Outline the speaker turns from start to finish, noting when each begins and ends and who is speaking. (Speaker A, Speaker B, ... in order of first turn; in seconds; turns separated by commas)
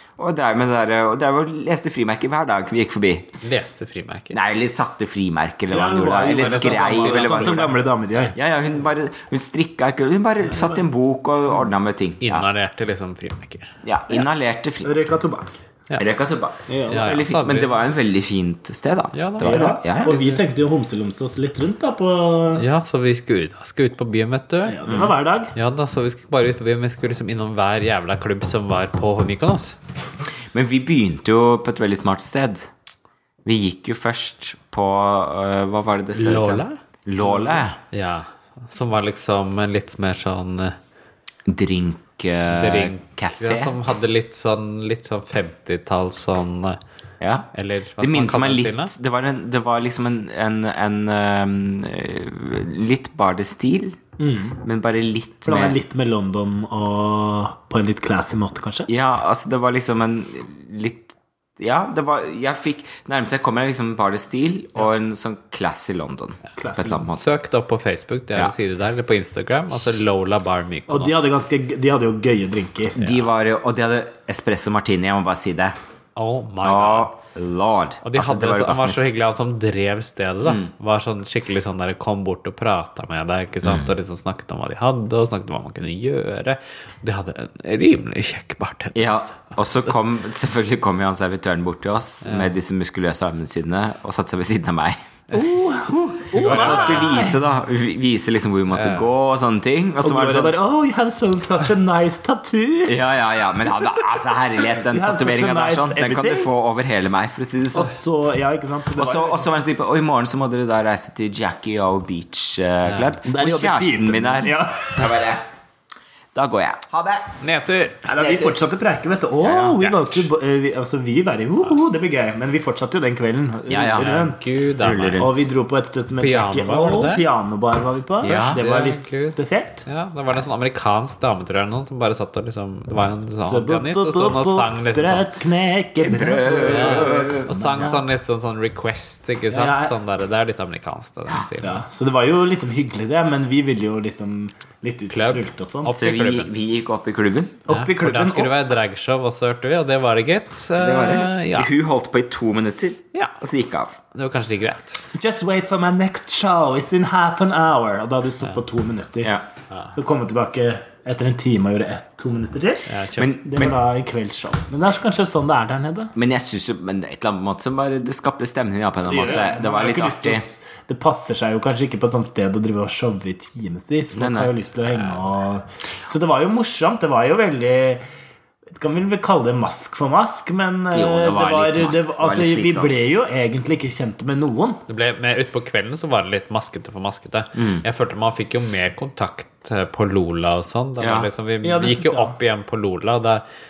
Speaker A: 0.2-3.3, Speaker B: 3.4-4.4, Speaker A: 4.3-7.8, Speaker C: 5.7-8.3, Speaker B: 6.3-7.7, Speaker A: 8.3-12.5, Speaker C: 10.5-10.8, Speaker B: 12.2-13.8, Speaker A: 13.8-14.9, Speaker C: 14.8-15.5, Speaker A: 16.0-20.2, Speaker C: 16.7-17.1, Speaker B: 16.9-17.8, Speaker B: 19.1-20.4, Speaker C: 19.4-22.6, Speaker B: 22.6-24.8, Speaker C: 24.7-25.5, Speaker A: 24.9-25.1, Speaker B: 25.5-29.8, Speaker A: 30.5-32.7, Speaker A: 33.5-37.8, Speaker B: 36.1-36.8, Speaker B: 37.4-40.8, Speaker A: 41.5-43.8, Speaker B: 42.5-46.8, Speaker A: 47.2-47.5, Speaker B: 47.5-48.9, Speaker A: 48.0-54.0, Speaker C: 54.2-54.6, Speaker A: 54.6-55.8, Speaker C: 55.5-58.9, Speaker A: 58.9-67.2, Speaker C: 66.6-67.1, Speaker B: 67.1-71.3, Speaker C: 70.9-73.0, Speaker A: 73.0-75.8, Speaker B: 73.0-73.3, Speaker B: 76.2-77.1, Speaker A: 76.6-79.1, Speaker B: 78.0-90.0, Speaker A: 80.4-80.7, Speaker A: 83.6-83.9, Speaker A: 89.0-95.0, Speaker B: 92.2-92.5, Speaker C: 95.3-97.4, Speaker A: 95.9-100.6, Speaker B: 96.3-97.3, Speaker B: 98.7-99.1, Speaker C: 100.0-104.1, Speaker A: 102.8-108.0, Speaker C: 104.6-106.5, Speaker C: 107.7-109.5, Speaker A: 109.0-115.4, Speaker B: 112.9-113.1, Speaker C: 113.3-115.2, Speaker A: 116.3-117.3, Speaker B: 117.4-118.0, Speaker C: 118.0-124.4, Speaker A: 118.2-118.6, Speaker B: 119.4-120.3, Speaker A: 123.7-125.5, Speaker B: 124.0-125.3, Speaker C: 125.2-129.8, Speaker B: 126.2-127.2, Speaker A: 128.2-128.6, Speaker B: 128.2-135.3, Speaker C: 133.5-137.9, Speaker A: 136.0-137.9, Speaker B: 136.7-141.8, Speaker C: 139.5-139.9, Speaker C: 141.6-145.9, Speaker B: 145.1-146.5, Speaker A: 145.9-147.6, Speaker C: 147.7-148.6, Speaker B: 147.7-151.7, Speaker A: 150.8-154.0, Speaker B: 154.1-155.1, Speaker C: 155.2-159.4, Speaker C: 159.9-162.9, Speaker B: 162.9-163.3, Speaker A: 163.2-163.8, Speaker C: 163.4-166.1, Speaker A: 166.2-170.4, Speaker C: 169.1-178.0, Speaker A: 174.1-174.5, Speaker B: 174.9-175.2, Speaker C: 178.8-184.8, Speaker A: 180.9-183.1, Speaker B: 184.9-193.4, Speaker A: 187.6-187.8, Speaker A: 191.0-191.3, Speaker C: 191.6-192.4